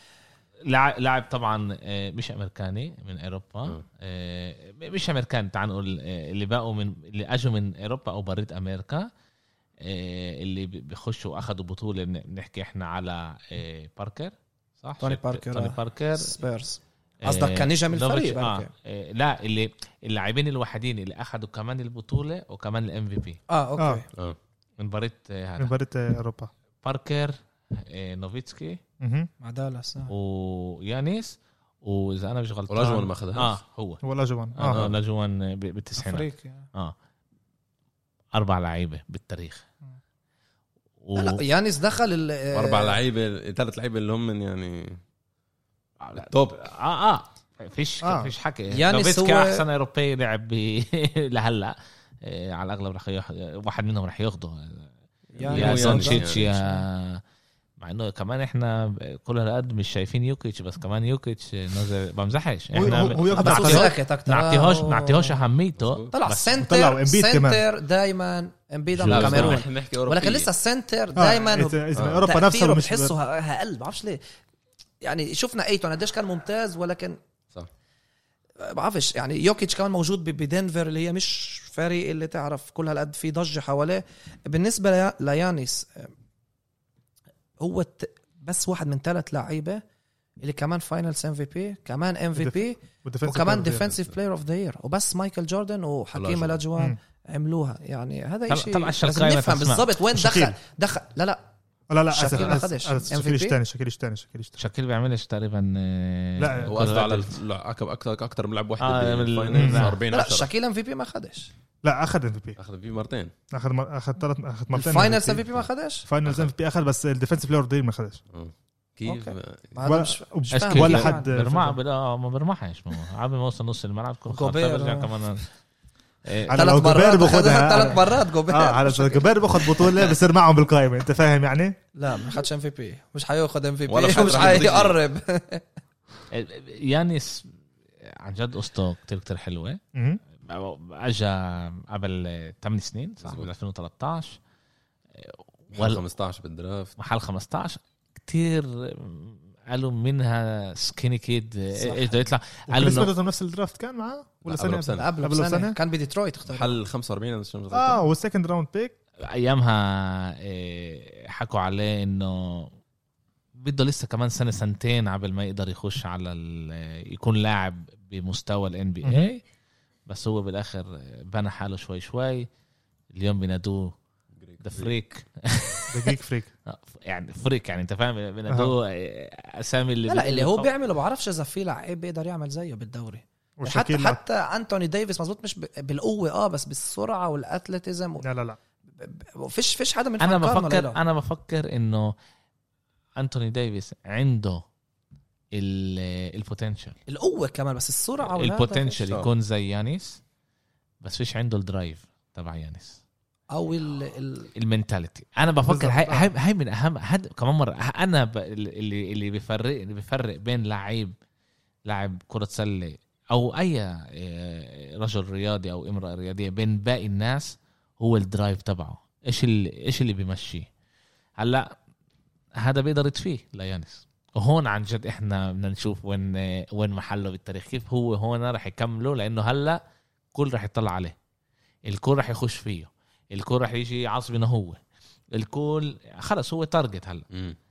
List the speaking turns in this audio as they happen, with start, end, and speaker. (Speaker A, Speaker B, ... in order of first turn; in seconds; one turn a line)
Speaker A: 0.7-9.1
Speaker A: 9.8-16.4
Speaker B: 15.0-18.7
Speaker A: 17.3-23.4
Speaker B: 23.5-24.1
Speaker A: 24.8-25.7
Speaker C: 25.6-26.5
Speaker A: 26.8-28.8
Speaker C: 29.0-29.3
Speaker B: 29.4-30.1
Speaker A: 30.1-34.0
Speaker D: 32.7-33.5
Speaker C: 34.0-34.8
Speaker A: 34.6-36.9
Speaker D: 34.6-35.0
Speaker B: 36.0-36.6
Speaker A: 38.3-39.6
Speaker A: 41.0-41.4
Speaker B: 41.1-43.0
Speaker D: 42.5-45.0
Speaker A: 46.0-54.9
Speaker D: 46.2-46.6
Speaker C: 48.0-48.3
Speaker B: 48.7-49.6
Speaker D: 55.3-56.4
Speaker B: 55.4-56.8
Speaker A: 55.5-57.2
Speaker A: 57.8-66.5
Speaker C: 62.7-63.9
Speaker B: 62.8-65.3
Speaker D: 65.8-66.1
Speaker B: 66.1-74.2
Speaker C: 66.6-67.6
Speaker A: 69.0-69.6
Speaker D: 69.0-70.5
Speaker C: 71.2-73.1
Speaker D: 71.9-72.2
Speaker B: 75.0-77.2
Speaker B: 78.6-86.1
Speaker B: 87.6-89.8
Speaker B: 90.4-101.4
Speaker C: 92.3-93.9
Speaker D: 96.1-96.6
Speaker A: 98.5-99.9
Speaker C: 100.1-100.5
Speaker C: 101.9-104.5
Speaker B: 102.1-103.6
Speaker A: 104.6-107.4
Speaker C: 106.4-106.8
Speaker D: 106.7-110.5
Speaker A: 108.8-110.0
Speaker C: 109.5-110.0
Speaker B: 110.1-111.5
Speaker C: 111.8-112.6
Speaker D: 112.6-113.3
Speaker C: 113.5-115.4
Speaker B: 114.7-116.0
Speaker C: 116.0-118.2
Speaker D: 118.3-119.7
Speaker B: 119.0-121.3
Speaker C: 119.8-121.8
Speaker A: 120.5-125.4
Speaker B: 124.3-125.1
Speaker A: 126.2-126.5
Speaker C: 126.5-131.8
Speaker B: 126.5-129.9
Speaker B: 131.9-135.6
Speaker D: 133.9-135.0
Speaker A: 136.3-137.5
Speaker A: 138.1-139.8
Speaker C: 139.9-140.2
Speaker A: 140.4-144.4
Speaker D: 143.2-143.5
Speaker A: 145.2-146.0
Speaker D: 145.7-146.9
Speaker A: 147.0-153.1
Speaker B: 151.7-152.2
Speaker C: 152.7-155.8
Speaker D: 154.4-155.1
Speaker B: 154.9-156.8
Speaker D: 156.5-158.0
Speaker C: 157.7-158.9
Speaker A: 159.2-162.7
Speaker A: 163.6-169.4
Speaker C: 169.0-169.3
Speaker A: 170.1-172.5
Speaker A: 173.1-173.9
Speaker D: 174.4-174.9
Speaker A: 174.6-176.1
Speaker C: 175.9-176.5
Speaker A: 176.7-180.7
Speaker C: 178.5-178.7
Speaker B: 180.1-188.2
Speaker C: 183.6-184.2
Speaker C: 188.2-188.6
Speaker B: 189.0-191.0
Speaker A: 190.2-192.1
Speaker A: 193.2-194.6
Speaker A: 195.5-196.9
Speaker B: 197.1-199.0
Speaker A: 198.2-200.2
Speaker A: 201.0-203.0
Speaker B: 203.5-204.5
Speaker A: 204.6-211.1
Speaker C: 205.7-206.3
Speaker A: 211.8-220.7
Speaker A: 221.4-221.7
Speaker A: 222.6-229.8
Speaker A: 230.3-231.1
Speaker A: 231.8-234.8
Speaker A: 235.3-237.2
Speaker D: 237.3-237.6